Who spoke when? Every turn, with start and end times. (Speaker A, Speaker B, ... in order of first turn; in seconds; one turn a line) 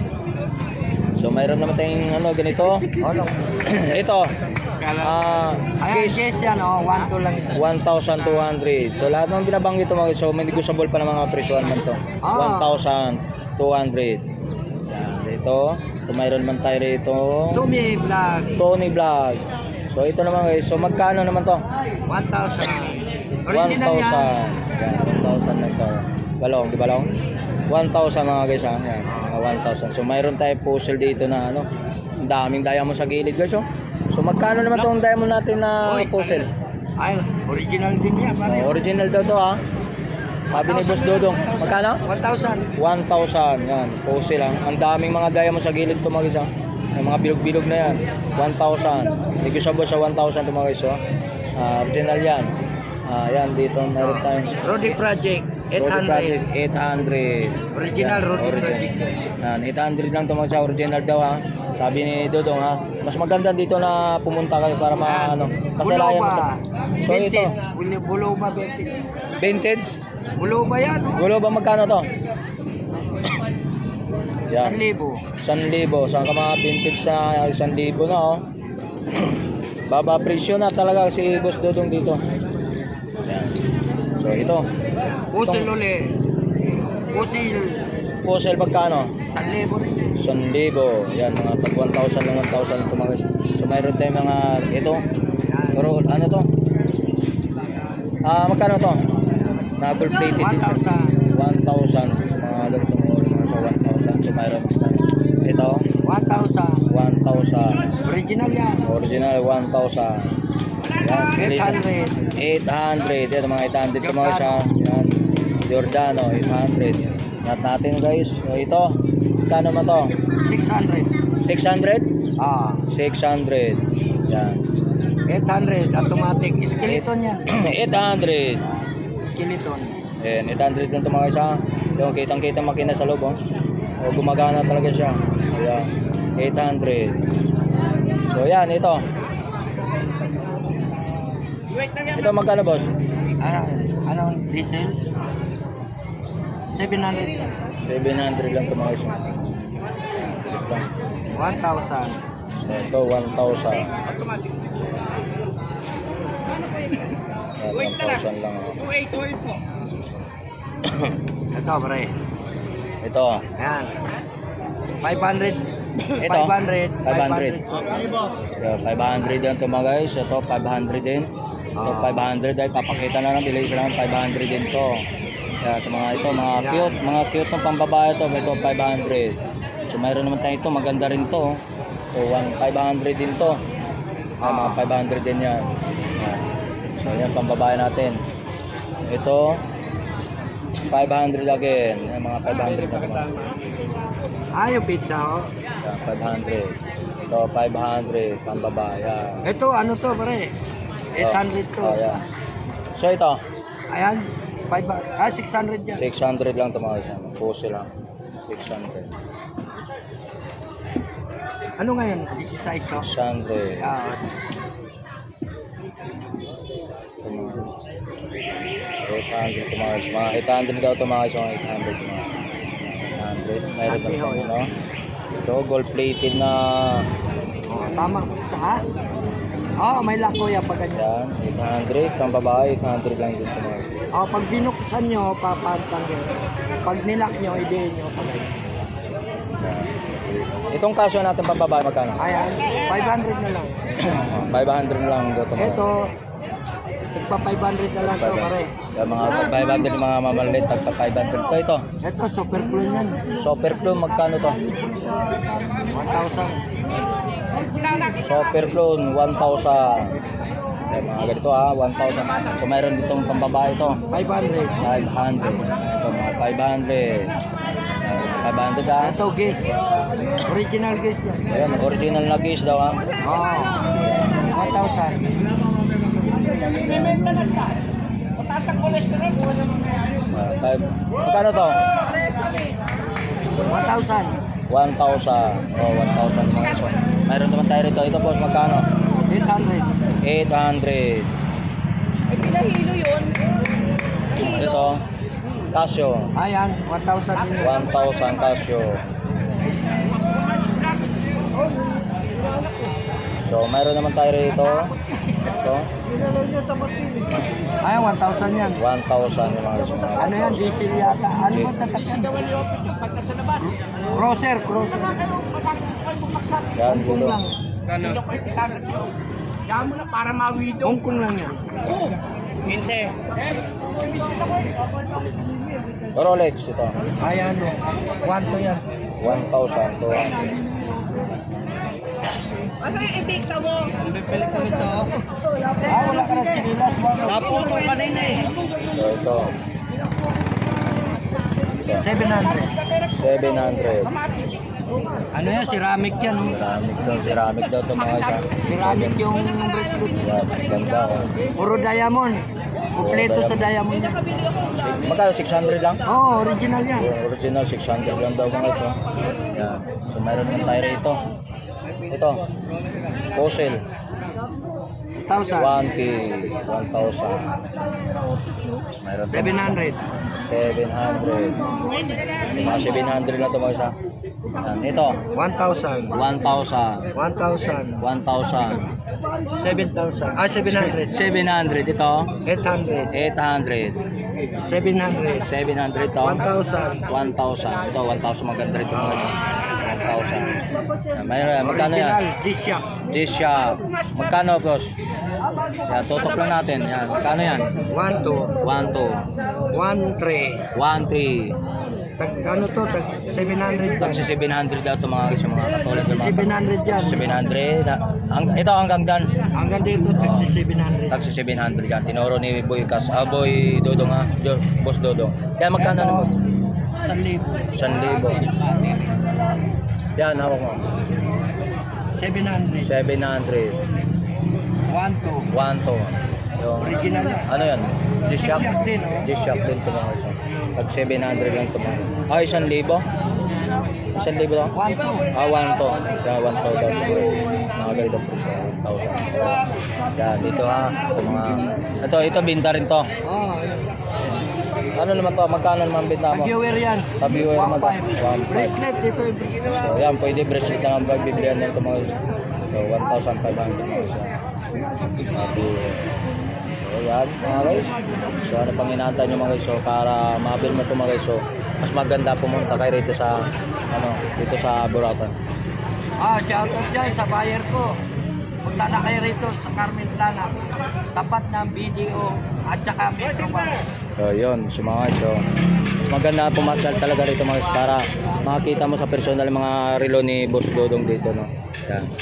Speaker A: 1.2-2.9
Speaker B: 2.9-3.5
Speaker A: 3.6-4.3
Speaker B: 4.8-5.2
Speaker A: 4.9-6.3
Speaker B: 5.8-7.6
Speaker A: 7.5-14.2
Speaker B: 12.2-12.8
Speaker A: 14.9-17.6
Speaker B: 17.5-18.6
Speaker A: 18.6-21.6
Speaker B: 22.1-24.3
Speaker A: 23.5-27.1
Speaker A: 27.7-31.7
Speaker B: 29.1-29.3
Speaker A: 32.2-36.5
Speaker B: 35.8-36.4
Speaker B: 37.0-38.8
Speaker A: 38.5-39.6
Speaker B: 40.5-42.7
Speaker A: 40.5-42.0
Speaker A: 42.8-51.0
Speaker A: 51.5-52.5
Speaker A: 53.1-54.6
Speaker B: 54.6-56.4
Speaker A: 55.8-66.4
Speaker B: 57.7-59.1
Speaker B: 65.0-69.1
Speaker A: 67.0-67.6
Speaker A: 69.4-69.9
Speaker B: 70.3-71.2
Speaker A: 71.1-72.1
Speaker A: 74.5-74.8
Speaker B: 74.6-75.2
Speaker A: 75.4-78.4
Speaker A: 79.9-82.2
Speaker A: 83.2-83.6
Speaker A: 84.2-84.7
Speaker B: 85.3-86.2
Speaker A: 85.4-85.7
Speaker B: 87.1-87.9
Speaker A: 88.2-89.1
Speaker B: 89.3-90.2
Speaker A: 90.2-95.0
Speaker B: 95.5-95.8
Speaker A: 95.8-96.5
Speaker A: 98.2-99.0
Speaker A: 99.8-105.8
Speaker B: 100.3-101.2
Speaker B: 106.0-106.8
Speaker A: 106.9-107.9
Speaker B: 108.0-108.8
Speaker A: 108.8-110.4
Speaker A: 110.9-119.0
Speaker B: 111.3-112.2
Speaker B: 114.0-114.7
Speaker A: 119.5-120.1
Speaker B: 120.4-121.1
Speaker A: 121.4-122.1
Speaker B: 122.4-122.8
Speaker A: 122.9-124.6
Speaker B: 125.3-127.5
Speaker A: 126.8-128.6
Speaker B: 129.2-129.9
Speaker A: 130.2-133.4
Speaker A: 134.0-137.2
Speaker A: 138.3-139.0
Speaker A: 142.0-142.9
Speaker B: 143.4-145.0
Speaker B: 146.7-147.5
Speaker A: 147.9-149.4
Speaker A: 150.4-150.8
Speaker B: 151.3-152.2
Speaker A: 152.6-153.9
Speaker A: 157.6-158.9
Speaker A: 160.8-161.1
Speaker B: 161.5-162.1
Speaker A: 163.0-163.5
Speaker B: 163.6-163.9
Speaker B: 165.0-168.1
Speaker A: 166.2-166.5
Speaker A: 167.0-167.6
Speaker A: 168.6-171.3
Speaker B: 171.8-172.3
Speaker A: 171.8-175.0
Speaker A: 175.6-179.3
Speaker B: 176.6-177.0
Speaker A: 179.9-181.6
Speaker A: 182.1-183.6
Speaker B: 184.4-185.0
Speaker A: 184.4-188.2
Speaker A: 189.1-189.6
Speaker A: 190.9-193.4
Speaker B: 194.5-195.5
Speaker A: 195.8-196.8
Speaker A: 197.3-199.4
Speaker B: 199.4-200.5
Speaker B: 201.1-202.2
Speaker A: 201.2-202.2
Speaker A: 202.9-203.4
Speaker B: 203.9-206.0
Speaker A: 205.9-207.9
Speaker A: 208.5-209.1
Speaker B: 211.8-213.1
Speaker A: 213.0-213.9
Speaker B: 213.8-214.4
Speaker A: 217.2-217.7
Speaker A: 219.0-224.7
Speaker B: 223.8-224.6
Speaker A: 225.4-227.1
Speaker B: 227.7-228.8
Speaker B: 229.8-231.1
Speaker A: 230.9-234.0
Speaker B: 234.1-238.6
Speaker A: 239.6-242.2
Speaker B: 242.2-243.8
Speaker A: 244.0-245.9
Speaker B: 245.6-246.1
Speaker B: 247.1-248.7
Speaker A: 248.0-251.8
Speaker B: 252.0-253.3
Speaker A: 253.3-254.7
Speaker B: 255.9-256.6
Speaker A: 258.1-260.1
Speaker A: 260.9-264.0
Speaker B: 264.1-264.9
Speaker A: 264.8-267.4
Speaker A: 268.0-269.2
Speaker B: 269.0-269.8
Speaker B: 270.4-271.5
Speaker A: 271.5-273.1
Speaker B: 273.1-275.2
Speaker A: 274.0-274.4
Speaker A: 276.7-277.4
Speaker A: 280.3-281.8
Speaker B: 283.6-284.4
Speaker A: 284.7-288.9
Speaker B: 289.3-289.9
Speaker A: 290.2-291.3
Speaker C: 292.6-293.3
Speaker A: 294.3-295.0
Speaker A: 295.7-296.3
Speaker B: 296.4-297.9
Speaker A: 297.6-299.0
Speaker A: 303.4-305.9
Speaker B: 307.8-308.8
Speaker A: 308.8-310.9
Speaker B: 310.2-312.6
Speaker A: 311.4-311.7
Speaker B: 313.3-315.4
Speaker A: 316.7-317.4
Speaker B: 316.8-318.1
Speaker C: 318.3-319.0
Speaker C: 320.0-320.6
Speaker B: 320.6-322.1
Speaker A: 326.1-327.0
Speaker B: 327.2-328.8
Speaker A: 329.2-330.4
Speaker B: 332.9-333.4
Speaker C: 333.4-333.7
Speaker B: 334.0-335.1
Speaker B: 335.8-338.6
Speaker A: 338.9-339.5
Speaker A: 341.8-342.1
Speaker B: 341.9-342.9
Speaker A: 342.9-344.2
Speaker B: 345.3-346.6
Speaker A: 346.4-349.2
Speaker B: 348.6-350.3
Speaker A: 350.1-351.4
Speaker B: 351.5-354.5
Speaker A: 353.0-353.7
Speaker A: 354.7-356.0
Speaker B: 356.0-357.1
Speaker A: 356.9-361.2
Speaker A: 362.1-362.4
Speaker A: 363.3-363.8
Speaker B: 365.2-365.8
Speaker A: 365.6-367.5
Speaker A: 368.9-369.8
Speaker B: 369.3-370.0
Speaker A: 370.4-371.7
Speaker A: 372.6-373.9
Speaker A: 374.6-375.2
Speaker B: 375.3-376.1
Speaker A: 376.1-377.1
Speaker B: 377.1-378.0
Speaker A: 378.0-378.9
Speaker B: 379.5-381.2
Speaker A: 380.7-382.3
Speaker B: 382.4-383.1
Speaker A: 383.1-384.0
Speaker B: 384.6-385.5
Speaker A: 385.4-386.5
Speaker B: 386.2-387.1
Speaker A: 387.1-392.2
Speaker B: 391.6-392.9
Speaker A: 393.0-394.9
Speaker A: 395.9-397.8
Speaker B: 397.9-398.5
Speaker A: 398.6-399.2
Speaker B: 399.7-400.7
Speaker A: 400.7-401.6
Speaker B: 402.2-404.3
Speaker A: 404.0-409.3
Speaker B: 405.9-407.4
Speaker B: 409.5-411.1
Speaker A: 410.2-410.5
Speaker A: 411.1-416.3
Speaker B: 415.8-416.4
Speaker B: 416.9-419.0
Speaker A: 417.7-418.5
Speaker A: 420.1-420.8
Speaker B: 422.1-422.9
Speaker A: 422.8-423.8
Speaker B: 424.9-425.5
Speaker A: 425.5-433.1
Speaker B: 426.8-427.5
Speaker B: 428.4-429.3
Speaker A: 434.1-434.8
Speaker B: 434.7-435.3
Speaker A: 435.3-443.1
Speaker B: 443.2-444.0
Speaker A: 444.9-446.5
Speaker B: 446.3-449.9
Speaker A: 447.2-448.8
Speaker A: 449.8-452.2
Speaker A: 452.7-454.4
Speaker A: 455.3-456.1
Speaker A: 456.8-465.3
Speaker B: 466.2-468.0
Speaker B: 468.6-473.8
Speaker A: 474.2-475.4
Speaker A: 476.1-482.1